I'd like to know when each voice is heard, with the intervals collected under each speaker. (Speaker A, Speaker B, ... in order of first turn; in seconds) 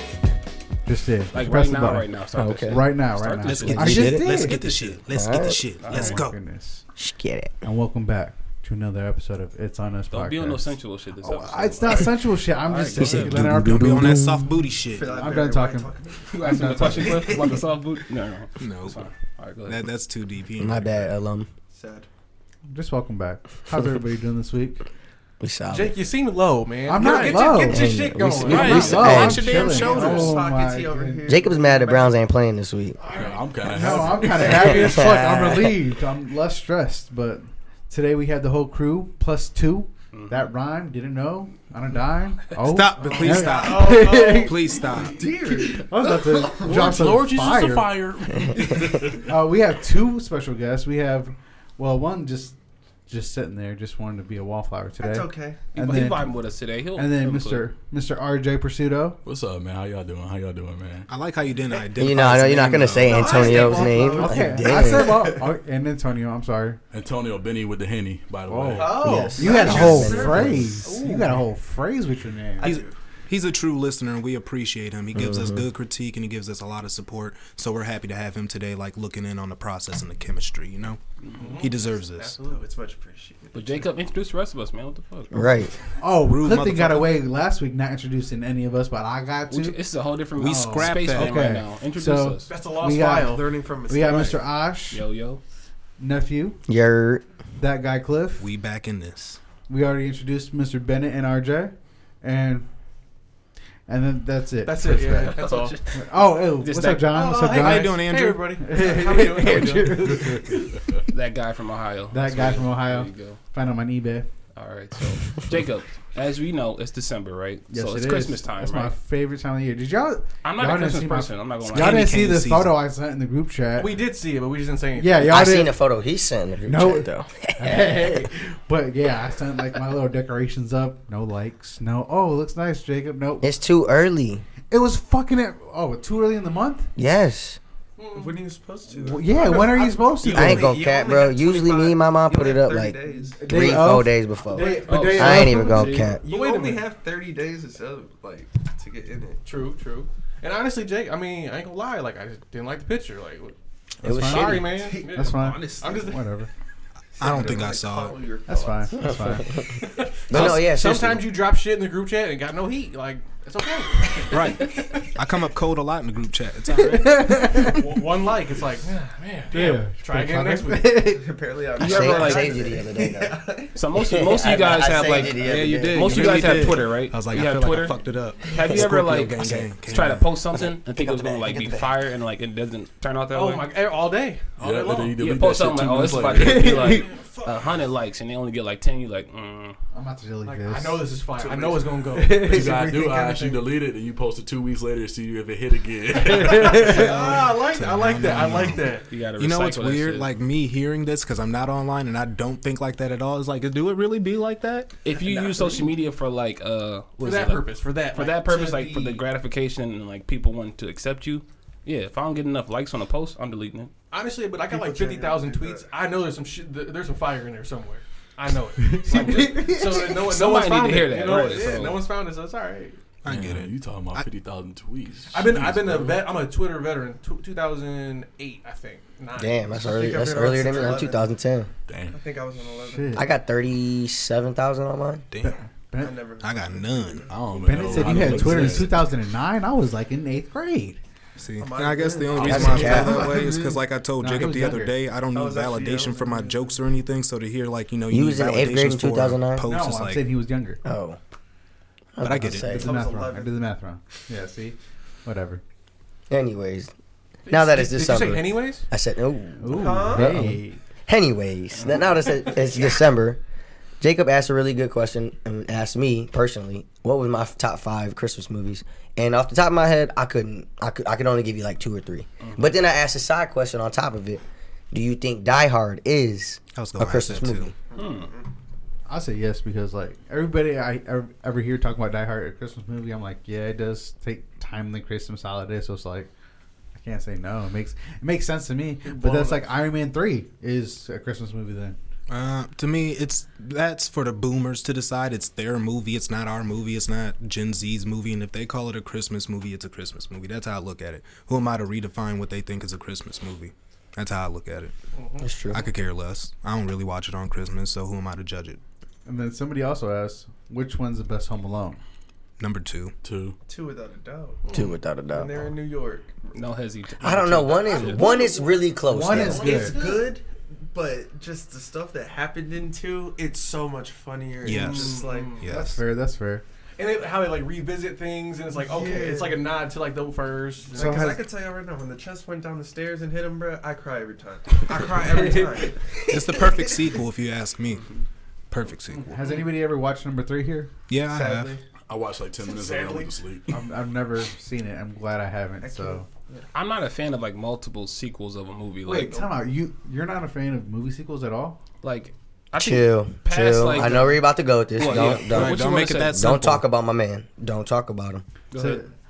Speaker A: 0.8-4.6, 5.9-6.8, 7.6-14.3, 15.1-17.6, 22.7-24.8, 26.9-31.3, 33.6-44.7, 45.5-48.0, 49.1-56.3, 56.9-59.2, 64.1-66.8, 68.5-72.7, 86.0-89.8, 90.4-95.0, 96.0-96.6, 97.6-98.5, 99.7-102.7, 103.9-110.8, 112.1-114.3, 117.7-123.9, 124.9-125.8, 126.7-133.5, 134.7-136.9, 138.9-140.8, 143.4-146.1, 154.0-156.5, 158.5-159.5, 167.0-167.8, 169.5-171.3, 186.4-187.1, 189.9-191.1, 192.1-192.6, 196.3-197.0, 218.9-220.1, 232.9-233.3, 235.4-236.2, 237.6-241.0, 244.2-244.9, 249.6-250.8, 252.7-255.6, 259.6-260.8, 279.1-286.3, 286.9-292.0, 309.2-312.0, 319.1-319.9, 325.7-326.6, 330.9-331.4, 335.3-335.9, 339.3-340.9, 343.7-346.3, 349.0-351.8, 358.7-359.1
Speaker B: 1.3-4.1, 5.8-6.2, 10.1-13.3, 16.3-19.8, 40.1-40.5, 55.7-57.7, 83.5-85.8, 89.5-92.5, 94.9-95.4, 105.2-107.3, 111.1-113.4, 114.5-118.9, 120.4-122.1, 144.8-146.2, 171.8-172.8, 173.8-183.7, 185.2-189.8, 199.1-200.3, 205.0-213.9, 219.1-222.1, 261.8-262.2, 272.4-272.7, 277.9-278.3, 316.5-318.3, 346.7-349.4, 352.0-356.4, 358.7-359.0
Speaker C: 2.3-2.9, 3.7-5.6, 7.0-7.5, 13.0-14.5, 20.6-21.5, 25.4-26.1, 27.6-29.5, 31.2-33.0, 34.4-35.8, 62.0-65.3, 69.2-70.8, 75.1-75.6, 85.3-85.7, 96.7-97.2, 125.2-128.2, 133.4-134.4, 136.9-137.6, 140.2-146.2, 154.0-154.8, 159.0-161.3, 171.8-173.4, 173.9-176.8, 179.4-179.7, 180.5-181.9, 229.3-231.7, 233.2-235.3, 242.4-243.4, 248.1-249.7, 250.8-251.2, 252.1-252.9, 256.3-256.9, 257.5-263.4, 264.0-277.7, 305.4-305.9, 314.7-315.5, 317.2-319.7, 352.8-358.4
Speaker D: 3.5-6.4, 13.1-15.3, 18.6-19.1, 19.6-21.1, 28.4-30.4, 42.6-45.2, 61.1-63.4, 72.6-81.0, 81.6-82.4, 86.1-87.2, 90.3-91.5, 98.4-99.4, 107.5-108.6, 121.7-122.8, 157.2-158.2, 164.3-167.4, 175.4-180.3, 197.0-204.9, 223.2-224.2, 235.3-235.6, 236.4-237.3, 241.4-250.2, 252.2-252.8, 276.7-277.7, 292.3-304.9, 305.7-308.8, 312.6-313.1, 324.6-326.0, 336.3-338.1, 338.7-339.5, 341.1-341.7, 355.1-356.8
Speaker E: 14.8-17.6, 21.7-22.1, 29.3-32.1, 43.0-47.0, 55.0-55.7, 63.0-65.5, 69.2-70.9, 72.6-73.0, 82.4-83.8, 93.2-94.5, 138.0-143.8, 146.2-149.4, 154.7-155.9, 157.1-159.4, 171.0-173.8, 191.4-193.5, 214.7-215.9, 229.7-231.3, 232.1-233.2, 235.9-238.9, 241.6-243.7, 245.2-246.8, 252.6-253.6, 259.7-260.5, 277.9-278.4, 289.1-289.6, 313.6-316.6, 317.8-325.7, 328.7-329.6, 330.9-337.1, 341.2-341.8, 345.8-346.6
Speaker F: 25.7-29.1, 33.0-35.1, 43.0-45.6, 63.6-63.9, 68.8-70.2, 70.8-71.4, 81.3-82.6, 92.5-93.5, 104.6-105.8, 107.1-110.7, 123.7-125.4, 138.0-138.4, 144.5-145.2, 146.3-146.8, 149.4-153.5, 154.1-156.3, 159.7-165.1, 167.6-171.1, 183.3-187.9, 190.4-193.6, 196.3-199.1, 205.1-205.9, 207.2-209.2, 214.1-223.0, 225.3-229.8, 230.7-231.0, 257.4-258.9, 305.1-305.6, 314.6-315.0, 319.4-320.3, 324.6-325.7, 327.0-331.4, 339.2-339.7, 342.6-343.4
Speaker G: 33.1-34.9, 46.6-49.3, 59.2-61.1, 66.9-69.3, 110.0-111.0, 184.6-186.8, 192.4-197.2, 223.3-226.3, 231.9-232.2, 237.3-239.0, 313.2-313.6, 342.1-343.9